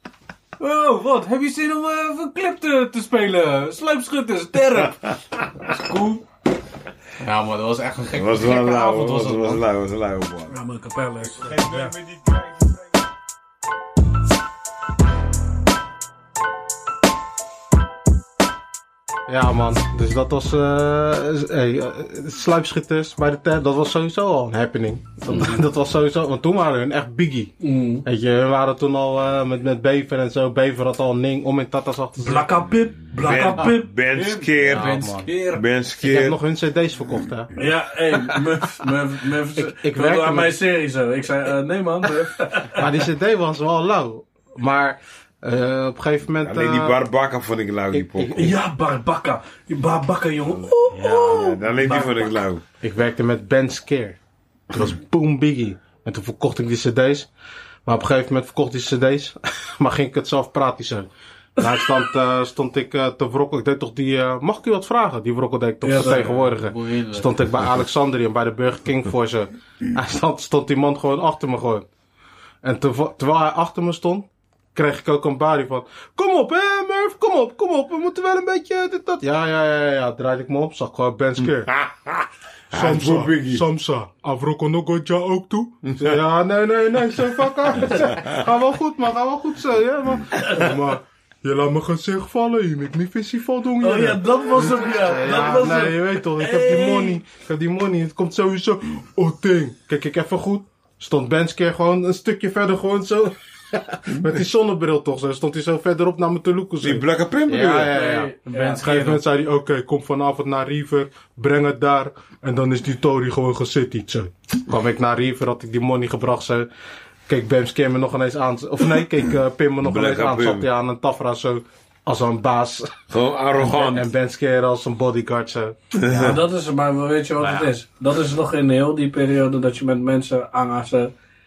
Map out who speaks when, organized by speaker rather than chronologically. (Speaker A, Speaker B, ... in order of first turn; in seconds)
Speaker A: 0.6-6.2, 7.2-9.6, 34.1-35.6, 66.0-67.3, 108.5-109.2
Speaker B: 4.8-5.1, 8.1-10.5, 11.2-13.0, 33.1-36.4, 46.4-48.5, 51.1-52.6, 81.7-83.6, 85.8-86.2, 106.8-107.9, 119.8-120.7, 123.1-124.1, 126.0-126.4
Speaker C: 10.5-11.9, 27.6-28.1, 32.2-33.9, 37.6-42.9, 48.3-52.3, 65.8-66.3, 93.8-97.2, 107.9-109.0, 126.2-131.1
Speaker D: 19.3-27.5, 28.0-32.5, 34.6-35.3, 36.0-37.5, 39.6-40.6, 42.8-47.0, 47.9-48.5, 50.9-51.5, 52.8-54.2, 54.7-57.3, 57.9-71.9, 72.6-81.7, 82.7-116.7, 117.3-123.0, 123.5-126.4, 127.4-127.7